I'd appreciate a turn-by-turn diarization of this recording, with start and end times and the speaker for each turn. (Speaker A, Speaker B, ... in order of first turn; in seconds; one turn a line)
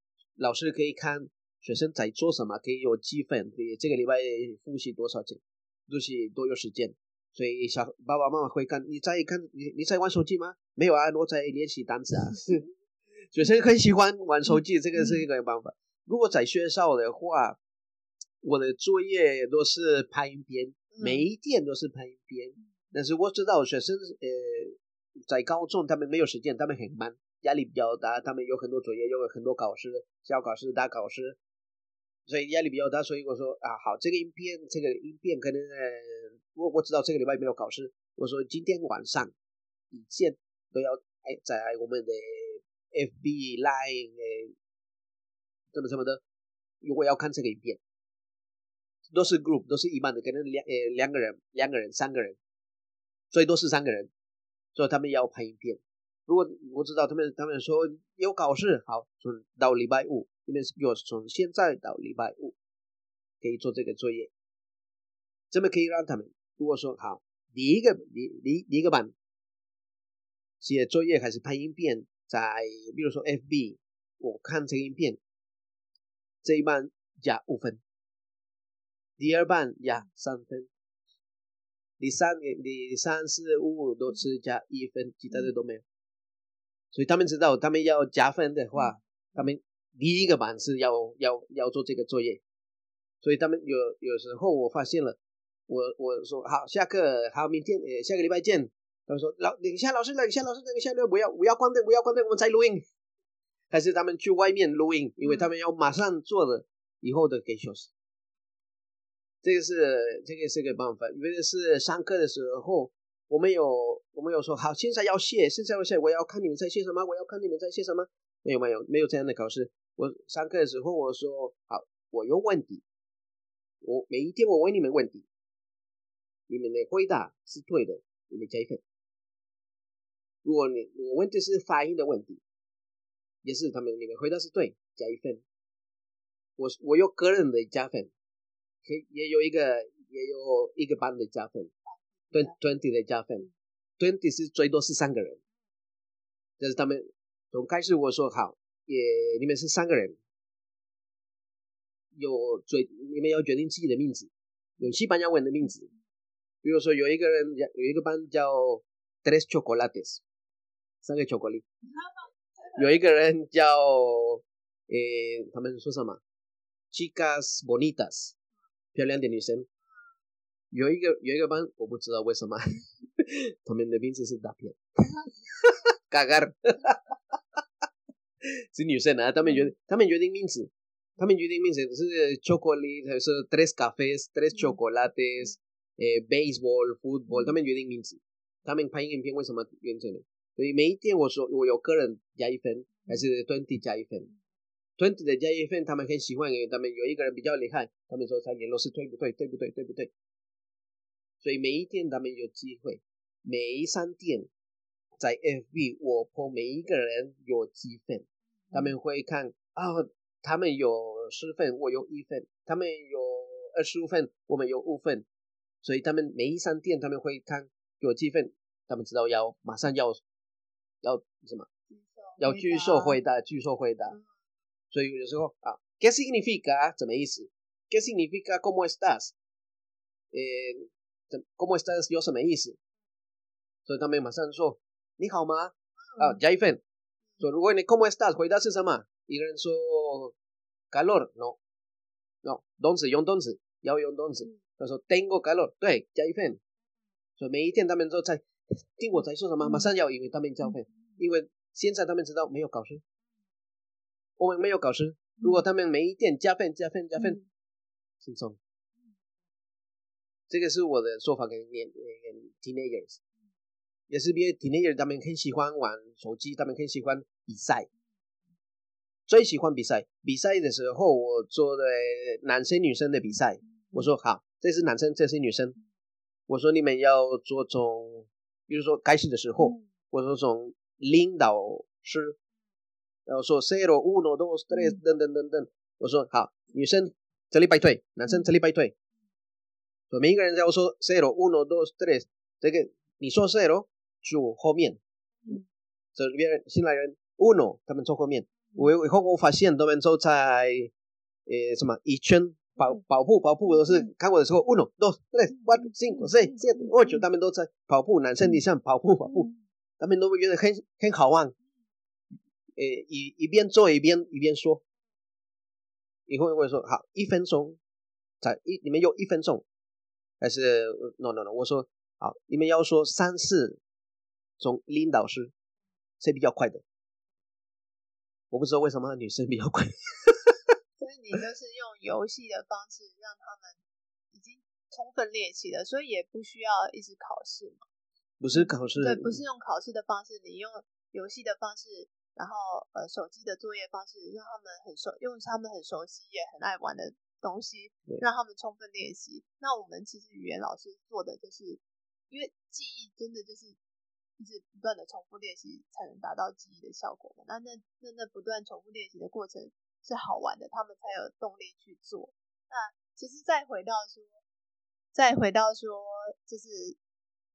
Speaker A: 0.4-12.6
Speaker A: 13.3-17.6
Speaker A: 18.4-31.4
Speaker B: 20.9-21.2
Speaker A: 32.3-39.3
Speaker A: 39.9-44.5
Speaker A: 45.7-46.2
Speaker A: 46.8-47.8
Speaker A: 49.1-52.4
Speaker A: 53.3-54.1
Speaker A: 54.7-62.5
Speaker A: 63.4-64.3
Speaker A: 65.5-69.1
Speaker A: 70.6-75.2
Speaker A: 76.4-77.8
Speaker A: 79.2-80.7
Speaker A: 82.0-85.8
Speaker A: 86.9-92.4
Speaker A: 93.2-102.8
Speaker A: 103.7-107.9
Speaker A: 109.4-122.8
Speaker A: 123.8-125.2
Speaker A: 126.5-128.8
Speaker A: 130.4-132.4
Speaker A: 133.4-135.4
Speaker A: 136.6-138.1
Speaker A: 138.8-141.7
Speaker A: 142.3-145.4
Speaker A: 146.6-150.2
Speaker A: 152.1-155.9
Speaker A: 156.6-160.2
Speaker A: 161.0-161.7
Speaker A: 162.7-166.2
Speaker A: 166.9-168.3
Speaker A: 168.9-169.7
Speaker A: 170.7-177.1
Speaker A: 178.4-194.3
Speaker A: 195.0-200.1
Speaker A: 201.4-204.5
Speaker A: 205.2-215.2
Speaker A: 215.8-220.2
Speaker A: 221.0-221.7
Speaker B: 221.9-223.2
Speaker A: 222.4-224.2
Speaker A: 224.9-229.3
Speaker A: 230.3-232.8
Speaker A: 233.8-236.8
Speaker A: 237.4-240.3
Speaker A: 240.9-241.6
Speaker A: 242.4-246.6
Speaker A: 247.4-253.0
Speaker A: 254.4-257.4
Speaker B: 257.2-257.4
Speaker A: 258.2-258.6
Speaker A: 260.5-263.2
Speaker A: 264.1-267.9
Speaker A: 269.3-275.8
Speaker A: 276.5-282.4
Speaker B: 279.6-279.8
Speaker A: 283.3-288.9
Speaker B: 284.7-285.0
Speaker A: 290.1-295.0
Speaker A: 296.1-300.9
Speaker A: 301.4-311.6
Speaker B: 309.3-309.6
Speaker A: 312.8-314.8
Speaker A: 316.3-317.8
Speaker A: 318.4-319.6
Speaker A: 320.4-323.8
Speaker A: 324.6-325.5
Speaker A: 326.2-326.8
Speaker A: 328.5-330.6
Speaker B: 331.0-333.8
Speaker B: 334.3-337.8
Speaker A: 338.4-339.4
Speaker B: 338.5-353.8
Speaker B: 354.4-364.4
Speaker B: 365.1-367.0